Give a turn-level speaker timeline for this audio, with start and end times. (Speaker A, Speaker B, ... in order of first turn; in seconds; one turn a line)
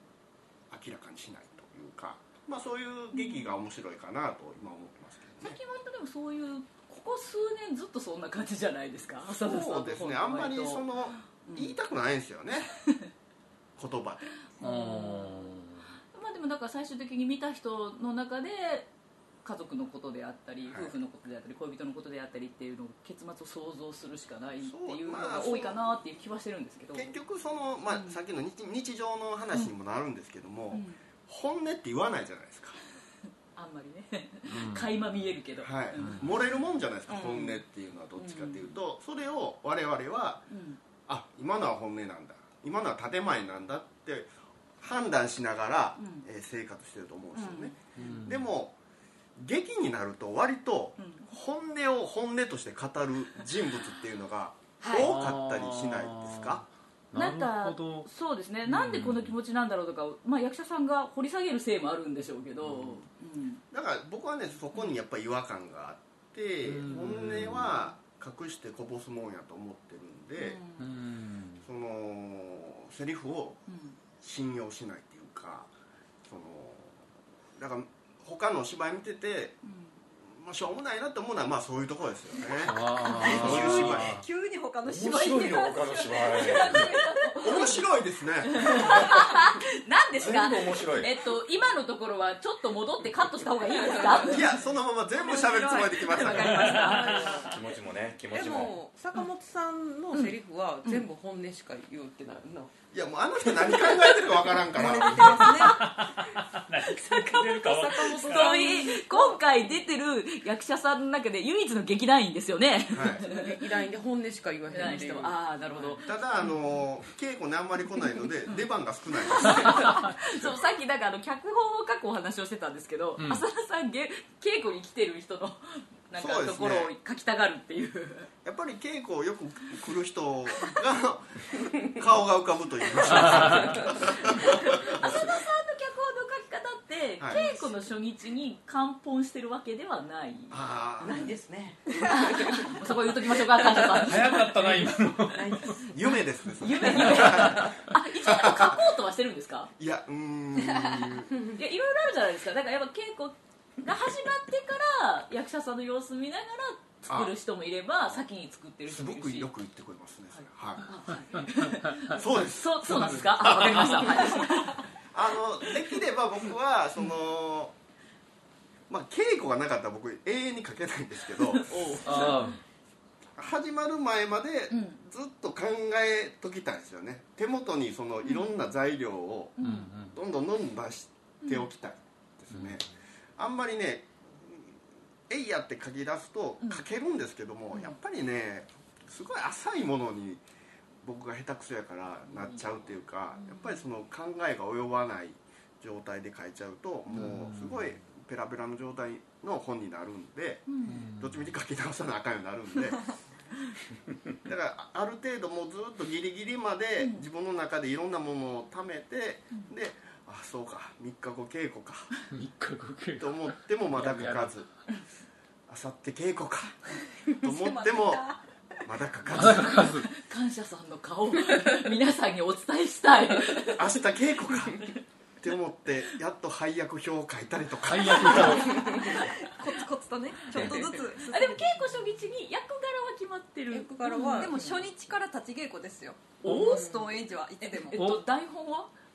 Speaker A: 0.7-5.6
Speaker B: 3.1-3.5
Speaker B: 5.4-11.7
Speaker A: 9.2-12.7
Speaker A: 13.8-14.3
Speaker B: 14.6-15.6
Speaker C: 14.6-15.8
Speaker B: 16.1-18.9
Speaker B: 19.4-27.1
Speaker A: 20.7-20.9
Speaker A: 24.6-25.9
Speaker A: 26.9-32.8
Speaker B: 27.9-28.2
Speaker B: 30.7-31.0
Speaker B: 33.5-36.2
Speaker C: 34.5-34.9
Speaker A: 35.6-40.5
Speaker B: 37.1-37.6
Speaker B: 38.1-38.7
Speaker B: 40.5-40.8
Speaker A: 41.1-48.8
Speaker B: 46.0-46.2
Speaker B: 47.3-48.2
Speaker C: 48.0-48.5
Speaker A: 49.4-56.6
Speaker B: 51.0-51.3
Speaker B: 54.8-55.1
Speaker C: 54.9-58.1
Speaker B: 57.1-63.6
Speaker C: 58.6-59.3
Speaker A: 63.7-70.6
Speaker C: 66.6-67.7
Speaker B: 70.4-70.8
Speaker C: 70.8-71.6
Speaker A: 71.6-73.6
Speaker B: 73.7-74.0
Speaker A: 74.2-75.7
Speaker A: 76.2-77.0
Speaker A: 77.5-79.6
Speaker B: 79.6-80.0
Speaker A: 80.2-84.2
Speaker C: 82.6-84.2
Speaker D: 83.1-87.8
Speaker E: 83.5-83.8
Speaker E: 84.9-87.0
Speaker B: 86.2-87.8
Speaker A: 87.4-89.2
Speaker B: 88.5-94.6
Speaker E: 90.2-91.1
Speaker A: 94.2-97.3
Speaker B: 95.2-97.5
Speaker C: 96.4-97.0
Speaker D: 96.5-97.4
Speaker F: 97.0-97.5
Speaker E: 97.4-98.8
Speaker F: 98.3-102.7
Speaker A: 102.9-105.7
Speaker D: 104.7-105.9
Speaker B: 105.1-105.9
Speaker C: 105.5-108.7
Speaker B: 106.9-107.6
Speaker D: 107.3-109.4
Speaker B: 108.2-113.5
Speaker A: 112.9-113.2
Speaker F: 113.2-116.0
Speaker B: 114.7-116.5
Speaker A: 116.0-120.5
Speaker B: 119.3-128.3
Speaker C: 123.2-123.4
Speaker A: 126.2-126.9
Speaker A: 128.4-135.2
Speaker B: 133.4-141.3
Speaker A: 137.2-137.4
Speaker A: 140.5-141.3
Speaker F: 141.0-142.7
Speaker B: 142.0-144.4
Speaker F: 143.8-144.1
Speaker C: 144.0-145.8
Speaker F: 145.3-146.0
Speaker A: 145.9-148.8
Speaker B: 146.6-149.7
Speaker A: 149.8-151.3
Speaker B: 151.5-159.5
Speaker A: 158.9-160.9
Speaker B: 160.3-164.8
Speaker A: 162.1-167.7
Speaker C: 162.9-164.1
Speaker A: 168.9-172.3
Speaker B: 171.5-172.6
Speaker C: 172.0-172.6
Speaker A: 173.4-179.6
Speaker B: 174.7-175.0
Speaker B: 178.2-178.5
Speaker B: 179.6-179.9
Speaker C: 179.6-180.2
Speaker A: 180.1-182.8
Speaker B: 181.4-181.7
Speaker C: 182.5-182.8
Speaker A: 183.4-184.8
Speaker A: 185.3-190.4
Speaker A: 191.0-203.1
Speaker B: 192.3-192.6
Speaker B: 193.3-193.8
Speaker C: 197.1-197.9
Speaker B: 200.7-201.0
Speaker C: 200.8-201.4
Speaker A: 204.4-212.1
Speaker C: 212.3-214.6
Speaker A: 213.2-214.7
Speaker A: 215.7-216.8
Speaker A: 217.4-218.3
Speaker D: 217.4-218.2
Speaker A: 218.8-219.8
Speaker C: 219.3-220.1
Speaker B: 219.7-223.9
Speaker A: 223.6-228.8
Speaker C: 227.8-228.8
Speaker D: 228.4-231.7
Speaker B: 229.0-229.3
Speaker B: 230.5-234.9
Speaker F: 233.7-234.6
Speaker D: 234.3-238.0
Speaker B: 236.4-237.0
Speaker C: 236.4-236.8
Speaker B: 237.7-238.9
Speaker C: 237.9-238.2